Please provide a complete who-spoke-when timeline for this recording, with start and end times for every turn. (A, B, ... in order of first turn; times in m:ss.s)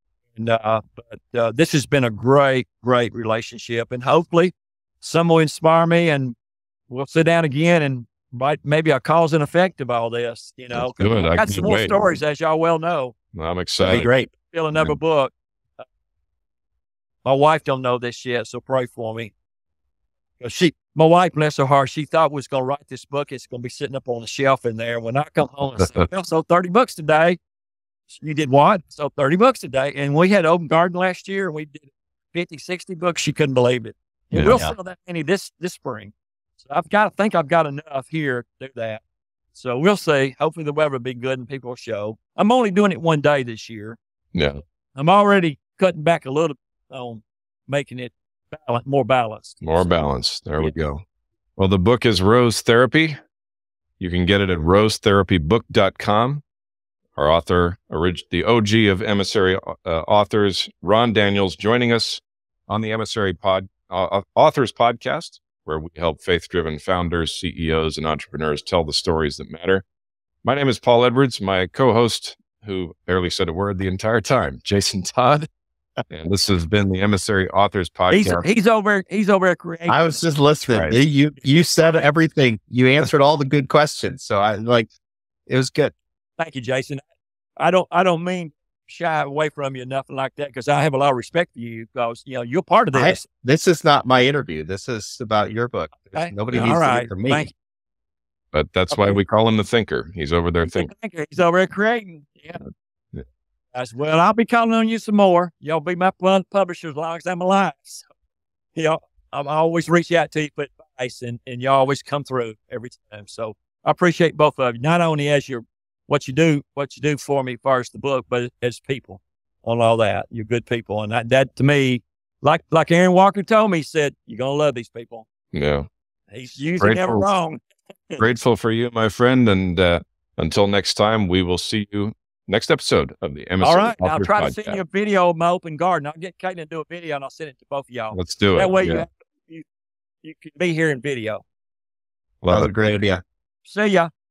0:00.4-0:06.4 A
0:06.9-0:13.2 A
0:10.7-0:12.0 B
0:13.3-0:14.1 B
0:13.8-0:15.9 A
0:13.8-0:14.2 C
0:17.2-0:19.3 A
0:20.4-0:27.4 A
0:25.8-0:26.0 B
0:28.1-0:39.0 A
0:34.3-0:34.6 B
0:34.5-0:34.7 C
0:39.5-0:44.0 A
0:44.3-0:44.6 B
0:45.0-0:50.0 A
0:49.6-0:51.0 B
0:51.6-0:53.2 B
0:54.0-0:56.4 B
0:57.2-1:09.8 B
1:10.4-1:15.5 B
1:16.1-1:18.4 B
1:18.1-1:20.2 A
1:19.9-1:24.9 C
1:25.5-1:25.9 C
1:26.4-1:27.0 A
1:27.6-1:33.2 A
1:32.9-1:37.5 C
1:36.1-1:37.5 A
1:38.5-1:40.9 B
1:38.9-1:39.2 A
1:40.7-1:42.6 A
1:43.7-1:48.1 A
1:48.8-2:05.3 A
2:05.5-2:05.9 B
2:06.3-2:08.2 A
2:06.8-2:07.3 B
2:08.2-2:14.8 B
2:13.6-2:19.7 A
2:18.1-2:19.1 B
2:20.2-2:21.4 A
2:22.4-2:22.7 B
2:22.5-2:23.2 C
2:23.6-2:24.1 A